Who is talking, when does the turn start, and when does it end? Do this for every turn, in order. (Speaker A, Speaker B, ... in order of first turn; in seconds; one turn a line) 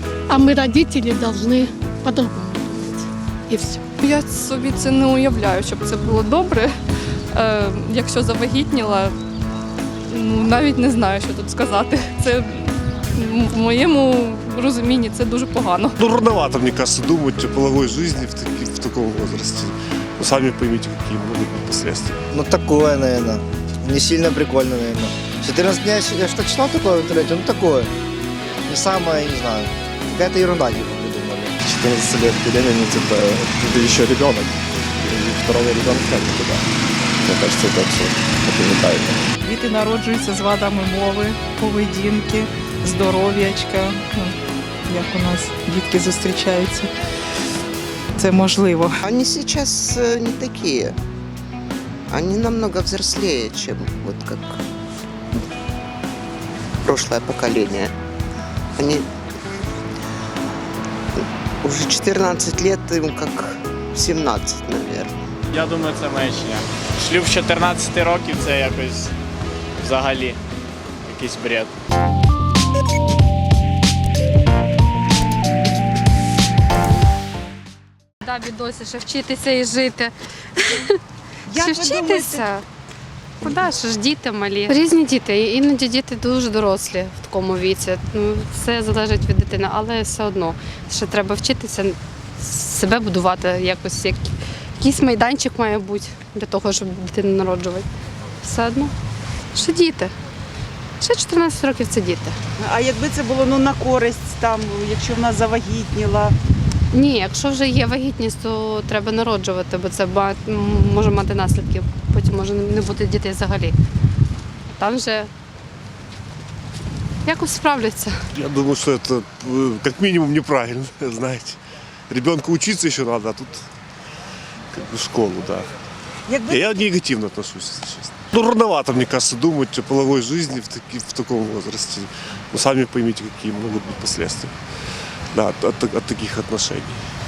Speaker A: 0.3-3.8
Speaker B: 4.0-6.7
Speaker B: 7.3-9.1
Speaker B: 10.1-15.9
Speaker C: 16.0-22.2
Speaker D: 22.3-27.9
Speaker D: 28.6-31.6
Speaker E: 31.6-39.3
Speaker F: 39.4-44.4
Speaker F: 44.9-46.9
Speaker F: 48.1-48.9
Speaker G: 49.0-51.0
Speaker G: 52.1-54.6
Speaker G: 56.9-57.9
Speaker G: 58.8-59.1
Speaker G: 61.6-65.1
Speaker H: 65.5-69.1
Speaker H: 69.8-70.4
Speaker H: 71.0-71.7
Speaker I: 78.2-80.9
Speaker J: 81.5-82.4
Speaker I: 81.5-82.6
Speaker I: 83.4-97.8
Speaker I: 98.4-98.9
Speaker I: 99.5-100.1
Speaker I: 101.0-102.3
Speaker J: 102.6-106.3
Speaker I: 106.9-113.8
Speaker I: 114.7-115.3
Speaker I: 117.2-118.2
Speaker C: 118.3-121.6
Speaker C: 122.1-123.6
Speaker C: 124.7-125.7
Speaker J: 126.3-126.7
Speaker C: 126.5-134.5
Speaker C: 135.3-137.0